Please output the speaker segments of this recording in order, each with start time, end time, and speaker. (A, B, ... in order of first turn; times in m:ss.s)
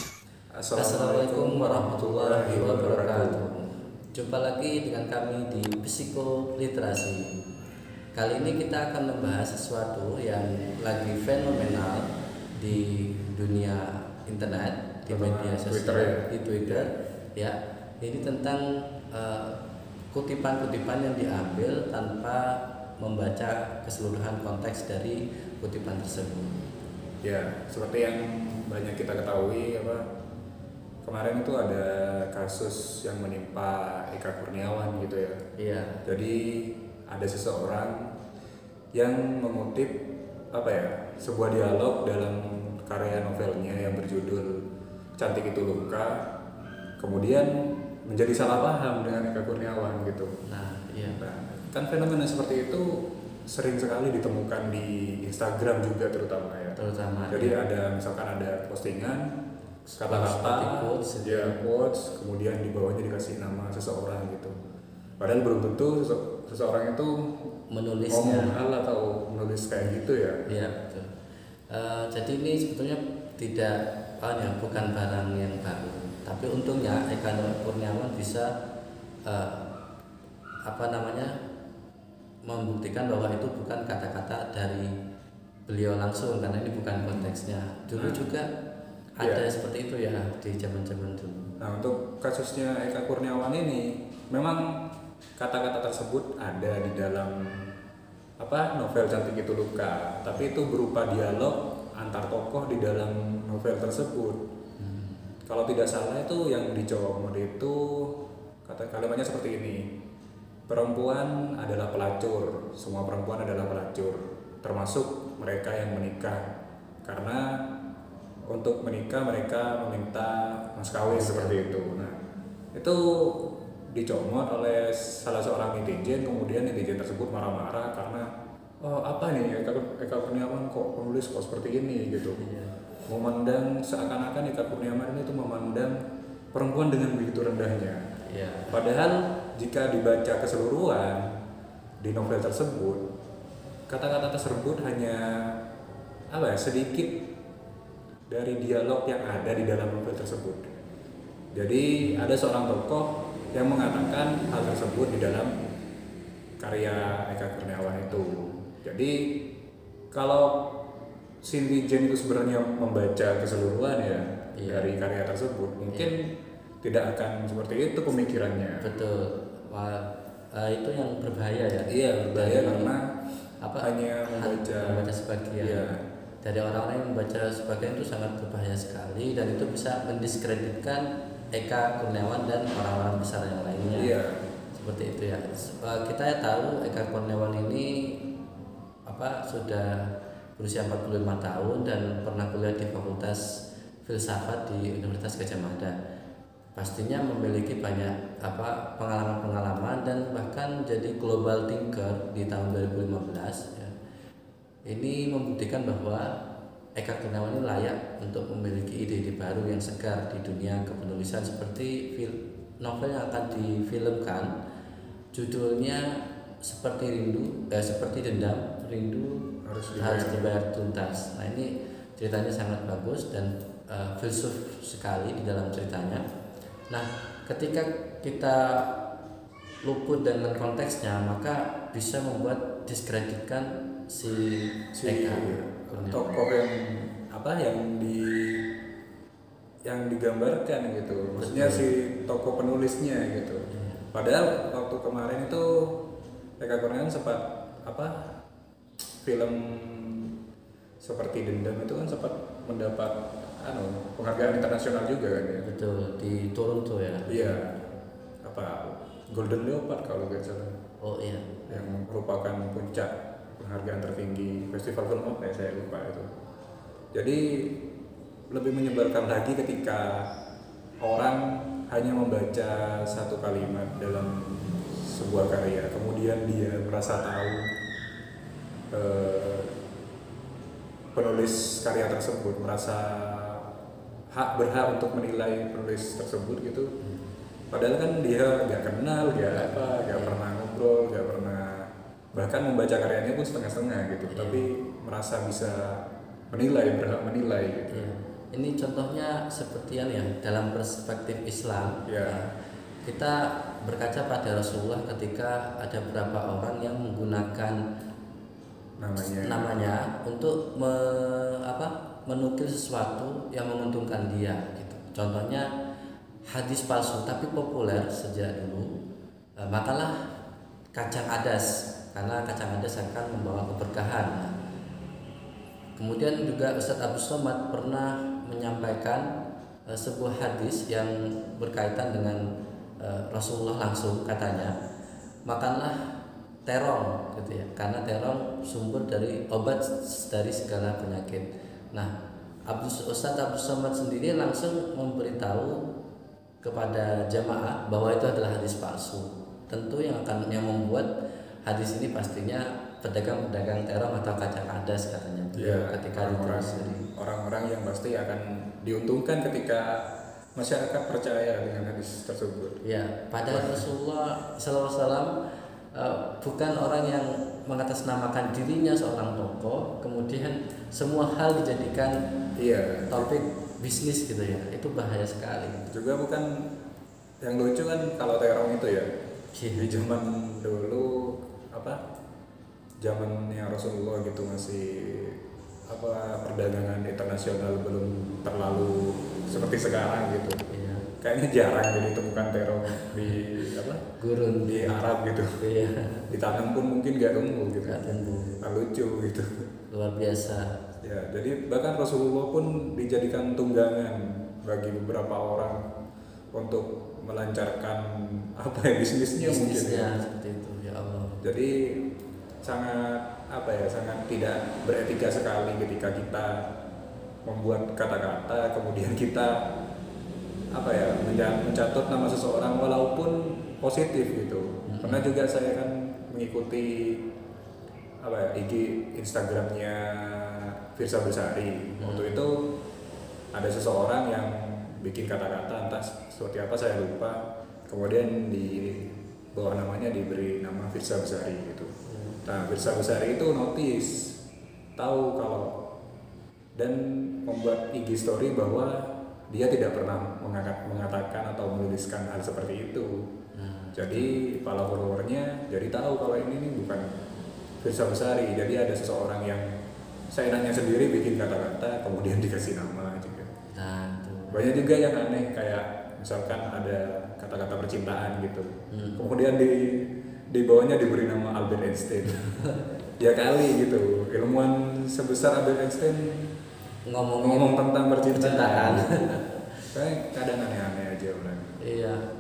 0:00.6-0:03.4 A
0:00.8-0:07.3 B
0:08.2-0:12.1 B
0:12.6-0:19.6 B
0:15.1-0:16.9 A
0:20.1-0:26.6 B
0:27.2-0:30.0 A
0:31.0-0:35.4 A
0:35.6-0:36.0 B
0:36.0-0:36.4 A
0:37.1-0:38.1 A
0:39.0-0:40.0 A
0:40.5-0:44.5 A
0:45.2-0:46.2 A
0:47.0-0:47.5 A
0:48.0-0:50.4 A
0:50.5-0:51.2 B
0:51.1-0:52.9 A
0:53.5-0:59.3 A
0:56.8-0:57.6 B
0:59.9-1:04.6 A
1:00.1-1:01.6 B
1:05.2-1:07.1 A
1:07.7-1:08.5 B
1:08.1-1:10.6 A
1:09.8-1:11.1 B
1:11.7-1:18.5 B
1:19.3-1:19.7 B
1:20.7-1:21.3 B
1:22.5-1:24.9 B
1:25.7-1:28.5 B
1:28.0-1:28.2 A
1:29.2-1:31.4 B
1:29.2-1:29.5 A
1:31.6-1:34.6 A
1:35.4-1:37.5 A
1:38.4-1:44.4 A
1:44.8-1:45.4 B
1:45.5-1:48.1 A
1:48.7-1:49.8 A
1:50.7-1:56.4 A
1:57.0-1:57.4 A
1:58.5-2:02.2 A
2:01.1-2:01.6 B
2:02.8-2:03.4 A
2:03.9-2:08.2 A
2:08.8-2:12.4 A
2:12.3-2:12.8 B
2:13.1-2:16.0 A
2:16.5-2:18.0 A
2:18.3-2:18.8 B
2:18.7-2:21.3 A
2:22.0-2:23.0 A
2:23.9-2:25.2 A
2:26.3-2:27.1 A
2:28.3-2:30.7 A
2:31.5-2:35.5 A
2:36.6-2:39.1 A
2:40.1-2:40.5 A
2:41.4-2:46.2 A
2:44.6-2:44.9 B
2:46.8-2:48.9 A
2:48.8-2:52.9 B
2:51.9-2:53.0 A
2:53.6-2:55.9 B
2:53.8-2:55.0 A
2:55.6-2:56.0 A
2:56.4-3:04.1 B
3:03.9-3:04.5 A
3:04.7-3:08.2 B
3:09.1-3:13.4 B
3:14.0-3:15.9 B
3:16.8-3:23.9 B
3:24.9-3:26.3 B
3:27.0-3:34.5 B
3:35.3-3:36.0 B
3:36.6-3:46.2 B
3:39.6-3:40.5 A
3:46.9-3:48.9 B
3:49.8-3:56.4 B
3:55.0-3:58.6 A
3:59.9-4:05.7 A
4:01.4-4:01.9 B
4:03.7-4:04.1 B
4:06.6-4:08.3 A
4:09.2-4:10.3 A
4:11.0-4:15.7 A
4:15.6-4:17.6 B
4:17.3-4:17.9 A
4:18.5-4:18.8 A
4:19.3-4:20.7 A
4:21.0-4:21.9 B
4:21.7-4:26.3 A
4:27.2-4:27.4 A
4:28.5-4:30.1 A
4:31.0-4:34.3 A
4:35.0-4:37.6 A
4:38.9-4:39.7 A
4:41.2-4:43.6 A
4:44.3-4:46.9 A
4:47.0-4:47.3 B
4:47.7-4:51.8 A
4:49.3-4:50.4 B
4:52.4-4:56.0 A
4:54.3-4:54.7 B
4:56.5-4:58.1 A
4:57.9-5:02.5 B
5:02.1-5:02.4 A
5:03.0-5:07.8 B
5:09.0-5:09.7 A
5:09.2-5:15.7 B
5:16.5-5:18.9 B
5:19.6-5:20.1 B
5:21.0-5:24.6 B
5:26.0-5:29.3 B
5:29.9-5:32.4 B
5:33.0-5:34.7 B
5:35.5-5:36.0 B
5:36.7-5:42.1 B
5:42.7-5:45.8 B
5:46.6-5:51.1 B
5:51.7-5:57.0 B
5:55.6-5:59.9 A
6:00.6-6:02.8 A
6:02.8-6:05.3 B
6:03.4-6:03.9 A
6:06.0-6:12.2 B
6:12.6-6:13.4 A
6:13.1-6:15.9 B
6:15.9-6:16.5 A
6:17.4-6:19.1 A
6:19.6-6:20.0 B
6:19.8-6:21.1 A
6:21.7-6:22.0 A
6:23.0-6:25.4 A
6:25.9-6:30.6 A
6:30.7-6:31.1 B
6:31.2-6:34.0 A
6:33.0-6:33.4 B
6:34.2-6:35.0 B
6:34.7-6:35.5 A
6:35.6-6:36.2 B
6:36.3-6:39.5 A
6:37.8-6:38.6 B
6:39.9-6:40.7 B
6:41.0-6:45.8 A
6:46.6-6:48.0 A
6:48.6-6:50.1 A
6:49.4-6:51.4 B
6:51.4-6:51.7 A
6:52.6-6:56.5 A
6:57.5-6:59.5 A
7:00.8-7:07.2 A
7:04.9-7:05.3 B
7:08.2-7:12.6 A
7:12.0-7:12.4 B
7:13.5-7:17.4 A
7:17.9-7:21.9 A
7:22.1-7:22.4 B
7:22.5-7:24.1 A
7:25.0-7:25.7 A
7:26.8-7:33.1 A
7:33.5-7:34.3 B
7:34.0-7:37.0 A
7:37.8-7:39.7 A
7:40.3-7:43.5 A
7:43.8-7:44.6 B
7:44.5-7:50.0 A
7:48.9-7:49.2 B
7:50.5-7:52.4 A
7:52.3-7:52.8 B
7:53.2-7:56.4 A
7:57.1-7:59.7 B
7:57.4-7:59.3 A
7:59.9-8:01.8 A
8:01.8-8:02.2 B